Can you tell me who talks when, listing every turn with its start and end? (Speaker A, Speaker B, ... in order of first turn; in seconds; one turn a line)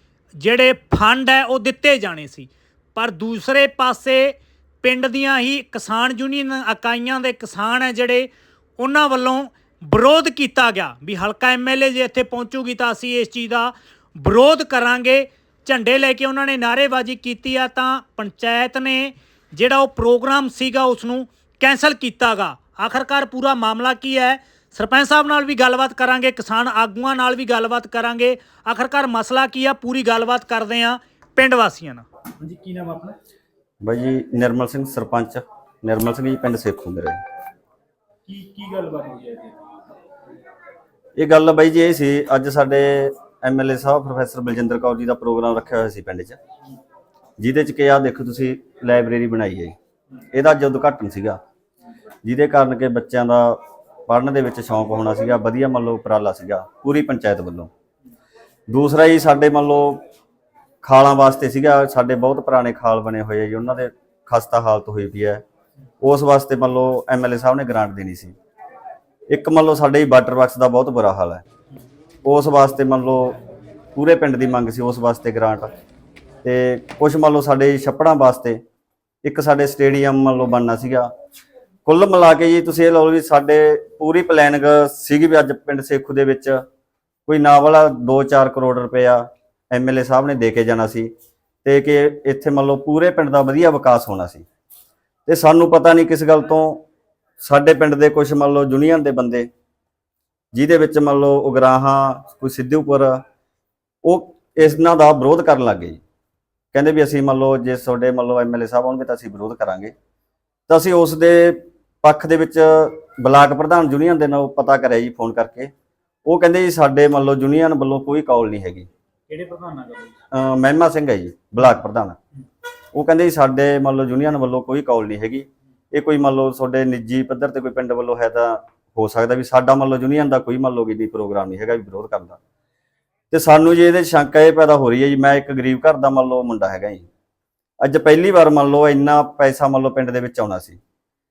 Speaker A: 0.4-32.0
Speaker B: 32.4-33.2
Speaker C: 33.8-37.2
Speaker B: 38.3-39.5
Speaker C: 41.2-46.4
Speaker C: 47.4-49.7
Speaker C: 50.3-51.4
Speaker C: 52.2-57.7
Speaker C: 58.7-60.0
Speaker C: 60.8-65.4
Speaker C: 66.0-68.3
Speaker C: 69.3-71.4
Speaker C: 72.2-73.4
Speaker C: 74.0-75.7
Speaker C: 76.4-78.6
Speaker C: 79.2-81.1
Speaker C: 81.9-86.6
Speaker C: 87.3-91.1
Speaker C: 91.7-94.5
Speaker C: 95.3-96.9
Speaker C: 97.4-99.5
Speaker C: 100.5-103.2
Speaker C: 104.0-106.0
Speaker C: 106.7-109.9
Speaker C: 110.7-115.7
Speaker C: 116.3-118.9
Speaker B: 119.3-120.2
Speaker C: 120.3-122.2
Speaker C: 122.9-132.4
Speaker C: 133.3-137.1
Speaker C: 137.8-140.8